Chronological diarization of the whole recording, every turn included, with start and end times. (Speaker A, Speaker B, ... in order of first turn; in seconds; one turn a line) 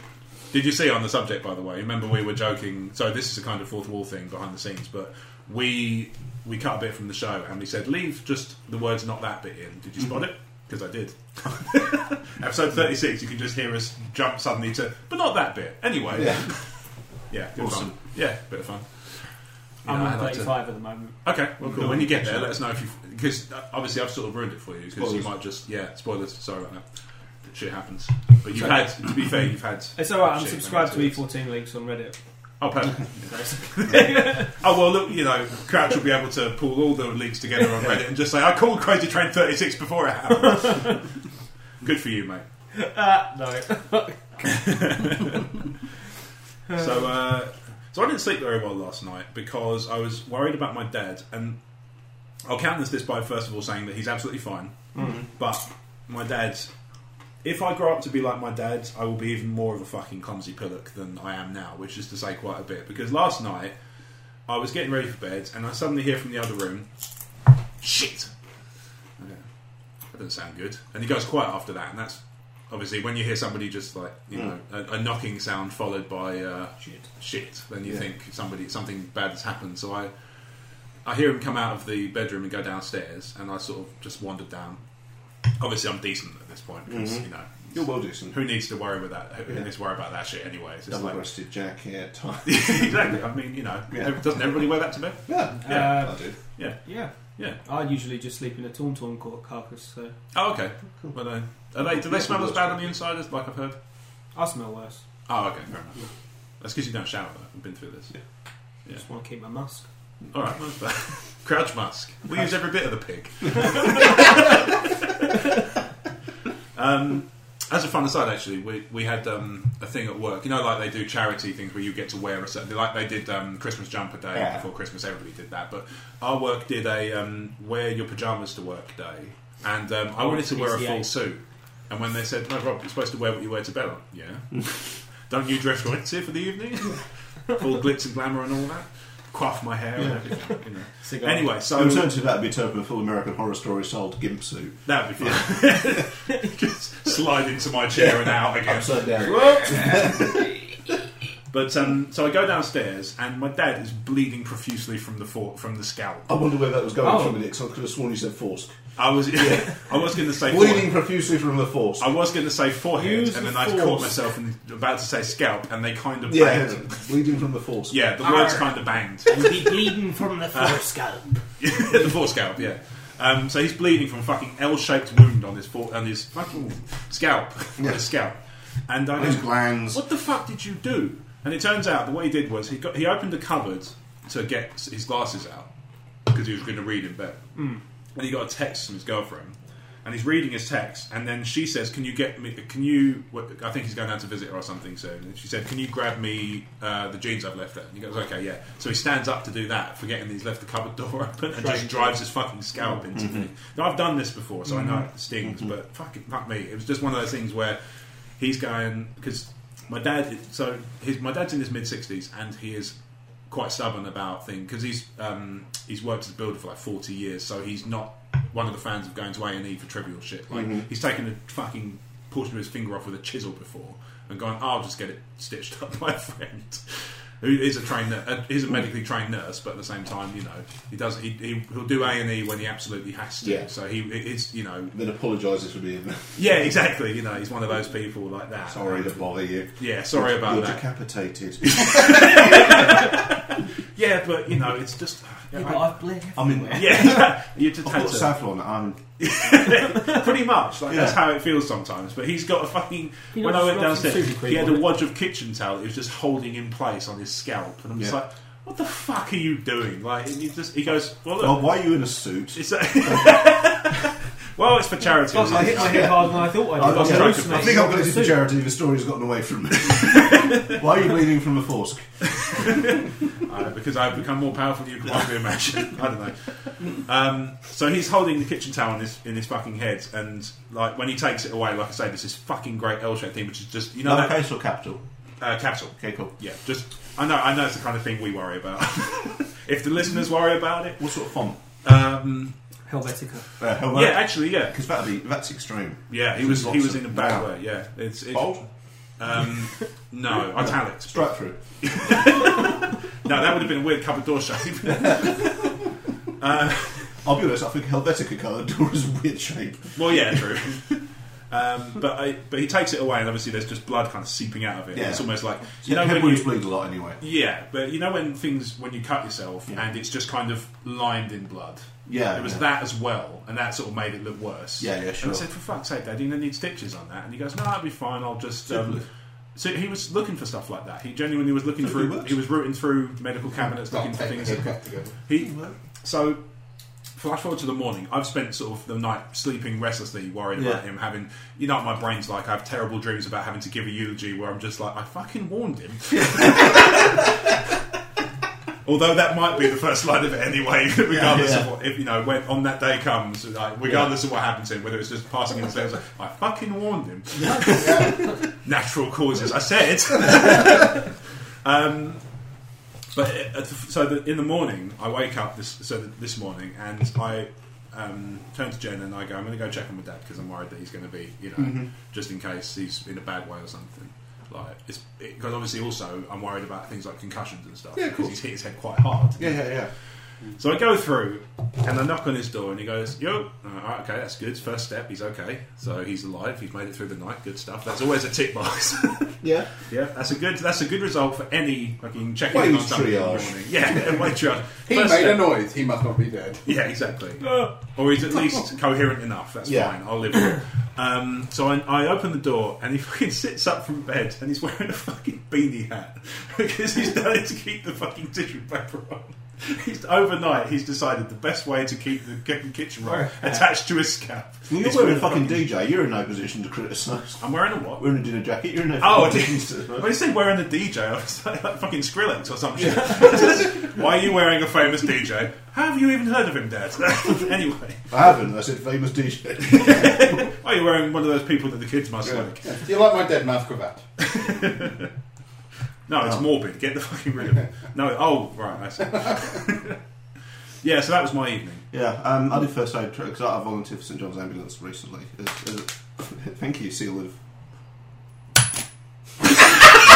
Speaker A: 0.5-26.9
Speaker B: 16.1-16.8
Speaker B: 17.6-18.0
Speaker C: 19.9-21.3
Speaker B: 21.6-22.5
Speaker B: 25.0-25.3
Speaker A: 27.4-31.2
Speaker C: 30.0-32.2
Speaker A: 32.6-41.1
Speaker C: 33.3-34.5
Speaker C: 40.4-41.0
Speaker A: 41.8-42.5
Speaker C: 42.8-45.0
Speaker A: 44.4-45.6
Speaker A: 46.7-51.6
Speaker A: 52.4-56.7
Speaker C: 55.0-55.2
Speaker A: 57.4-63.8
Speaker A: 64.5-66.9
Speaker A: 67.8-68.3
Speaker A: 70.1-80.1
Speaker A: 81.0-84.8
Speaker A: 85.6-87.8
Speaker B: 86.9-88.4
Speaker A: 88.3-91.2
Speaker B: 90.9-93.1
Speaker A: 92.5-97.6
Speaker B: 93.9-94.6
Speaker B: 95.3-96.3
Speaker C: 95.6-100.2
Speaker A: 100.3-103.8
Speaker B: 101.8-102.8
Speaker C: 104.3-105.1
Speaker A: 105.3-106.0
Speaker A: 106.6-108.2
Speaker C: 109.0-109.9
Speaker A: 110.3-114.6
Speaker A: 116.8-142.1
Speaker B: 124.3-124.7
Speaker C: 130.2-131.1
Speaker B: 140.0-140.2
Speaker C: 141.0-141.5
Speaker B: 141.7-146.1
Speaker A: 144.9-149.6
Speaker B: 148.0-150.5
Speaker C: 149.3-150.5
Speaker A: 151.5-156.3
Speaker B: 156.3-158.8
Speaker C: 157.0-157.4
Speaker A: 159.0-161.0
Speaker B: 159.3-159.7
Speaker B: 160.2-162.1
Speaker A: 162.0-167.1
Speaker C: 162.9-164.2
Speaker B: 166.3-168.0
Speaker A: 167.9-169.7
Speaker C: 168.2-171.4
Speaker A: 170.5-170.8
Speaker A: 171.6-178.4
Speaker A: 178.9-185.7
Speaker B: 179.2-180.0
Speaker A: 186.3-187.4
Speaker C: 187.6-187.8
Speaker A: 188.2-207.8
Speaker C: 201.5-202.2
Speaker B: 203.1-203.5
Speaker A: 208.4-213.0
Speaker A: 213.5-234.9
Speaker B: 220.5-220.9
Speaker B: 233.4-233.7
Speaker B: 234.9-236.4
Speaker A: 236.4-239.2
Speaker B: 238.7-243.1
Speaker A: 239.8-240.8
Speaker A: 241.7-243.4
Speaker A: 243.9-246.0
Speaker C: 245.5-247.2
Speaker B: 246.3-249.0
Speaker A: 246.7-248.3
Speaker A: 249.2-261.7
Speaker B: 250.9-251.2
Speaker C: 253.3-255.0
Speaker B: 261.4-264.0
Speaker A: 262.5-267.8
Speaker C: 265.3-268.4
Speaker B: 265.4-272.8
Speaker A: 270.2-270.8
Speaker A: 272.4-284.4
Speaker B: 284.0-285.0
Speaker A: 285.4-291.1
Speaker B: 286.0-286.3
Speaker B: 291.0-291.6
Speaker A: 291.8-292.6
Speaker C: 292.9-293.5
Speaker B: 293.6-297.5
Speaker A: 293.9-294.8
Speaker A: 296.1-298.6
Speaker B: 298.3-298.6
Speaker A: 299.2-305.7
Speaker B: 300.4-302.6
Speaker B: 305.0-305.5
Speaker A: 306.4-307.2
Speaker B: 307.2-310.4
Speaker A: 309.9-310.9
Speaker A: 311.5-316.6
Speaker B: 314.9-317.2
Speaker A: 317.2-329.0
Speaker B: 322.1-322.6
Speaker B: 324.8-325.4
Speaker B: 328.7-329.1
Speaker A: 329.6-336.4
Speaker B: 331.8-332.3
Speaker D: 333.9-335.2
Speaker B: 335.4-335.7
Speaker A: 337.2-347.4
Speaker B: 340.6-340.8
Speaker B: 346.1-347.2
Speaker A: 348.8-362.2
Speaker B: 351.1-351.7
Speaker C: 357.4-358.3
Speaker A: 363.1-379.7
Speaker B: 371.6-371.9
Speaker B: 378.0-378.4
Speaker B: 379.4-379.9
Speaker A: 380.6-395.5
Speaker B: 389.4-389.7
Speaker B: 392.5-394.1
Speaker D: 394.9-396.6
Speaker A: 396.6-415.6
Speaker C: 397.4-397.7
Speaker B: 399.6-399.9
Speaker C: 413.0-413.7
Speaker B: 414.7-420.1
Speaker A: 417.4-418.0
Speaker A: 419.0-428.1
Speaker B: 428.1-430.4
Speaker A: 429.7-432.8
Speaker D: 432.6-434.0
Speaker A: 434.2-435.1
Speaker A: 436.1-440.0
Speaker A: 440.8-441.9
Speaker B: 441.9-447.4